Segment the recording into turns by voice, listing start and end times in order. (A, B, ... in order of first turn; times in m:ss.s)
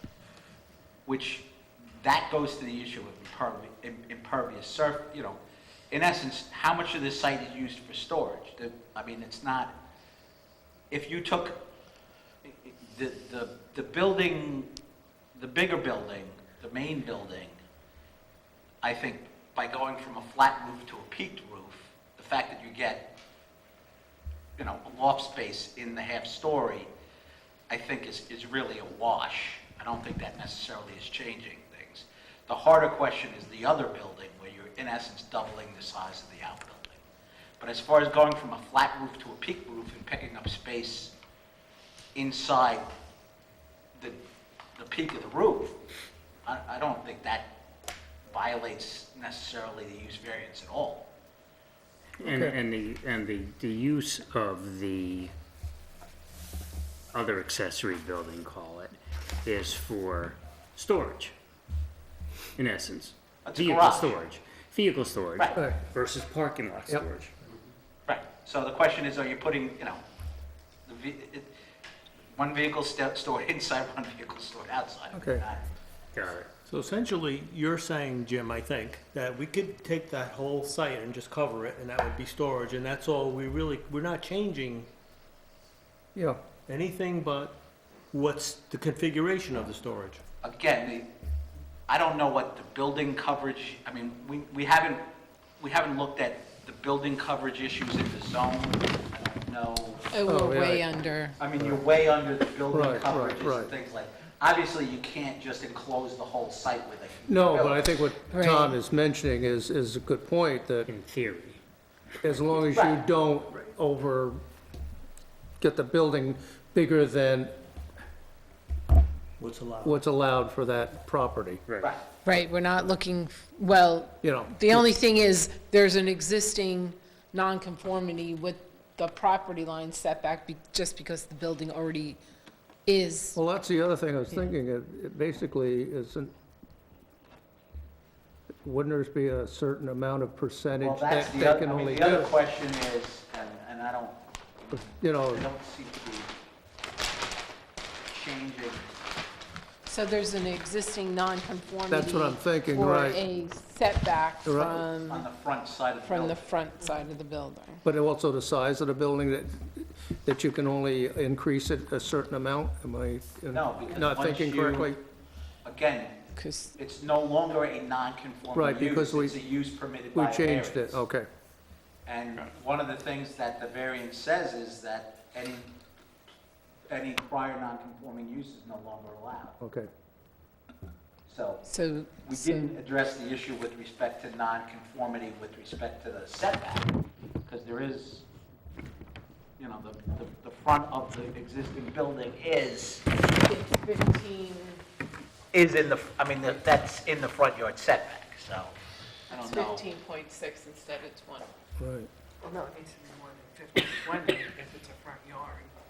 0:01.1-0:05.4 A
0:05.9-0:09.7 A
0:10.9-0:11.6 A
0:12.4-0:14.7 A
0:15.4-0:17.6 A
0:18.8-0:23.1 A
0:24.6-0:26.9 A
0:27.7-0:37.0 A
0:37.6-0:41.1 A
0:42.2-0:42.9 A
0:44.8-0:45.8 A
0:46.5-0:47.5 A
0:48.3-0:51.1 A
0:52.2-0:55.3 B
0:52.2-0:52.6 C
0:57.1-1:01.4 B
1:02.6-1:07.3 B
1:03.4-1:04.3 A
1:08.1-1:10.0 A
1:10.9-1:11.5 A
1:12.4-1:15.6 A
1:15.1-1:15.4 C
1:16.1-1:16.5 B
1:16.7-1:24.9 D
1:26.2-1:26.4 C
1:26.7-1:27.6 D
1:28.1-1:30.2 D
1:30.4-1:31.1 A
1:31.9-1:35.0 A
1:35.6-1:40.1 A
1:40.1-1:41.4 E
1:40.3-1:40.9 C
1:41.4-1:47.9 A
1:42.7-1:43.7 C
1:47.3-1:50.9 C
1:48.3-1:48.8 E
1:50.9-1:51.6 B
1:52.2-1:54.4 C
1:52.7-1:53.0 A
1:55.6-1:57.5 C
1:59.4-2:00.0 D
1:59.8-2:01.6 C
2:02.2-2:12.2 E
2:04.2-2:04.9 C
2:12.9-2:13.4 E
2:13.4-2:16.3 C
2:18.6-2:22.3 C
2:20.8-2:26.3 A
2:24.8-2:25.5 C
2:28.1-2:28.9 A
2:29.8-2:35.3 E
2:31.9-2:33.2 C
2:34.5-2:34.9 C
2:35.0-2:36.4 A
2:36.0-2:37.8 E
2:37.8-2:45.0 C
2:43.5-2:44.9 A
2:45.6-2:46.2 A
2:46.4-2:46.8 E
2:46.8-2:51.0 A
2:48.5-2:49.4 C
2:50.1-2:51.3 C
2:52.1-2:55.7 A
2:56.9-2:59.6 A
2:59.6-2:59.9 C
3:01.3-3:01.6 A
3:01.6-3:02.8 E
3:02.2-3:06.9 A
3:07.5-3:08.2 A
3:09.6-3:13.0 A
3:13.4-3:14.8 E
3:15.5-3:18.8 A
3:19.3-3:19.8 A
3:19.3-3:21.5 E
3:21.8-3:22.1 C
3:22.4-3:25.7 F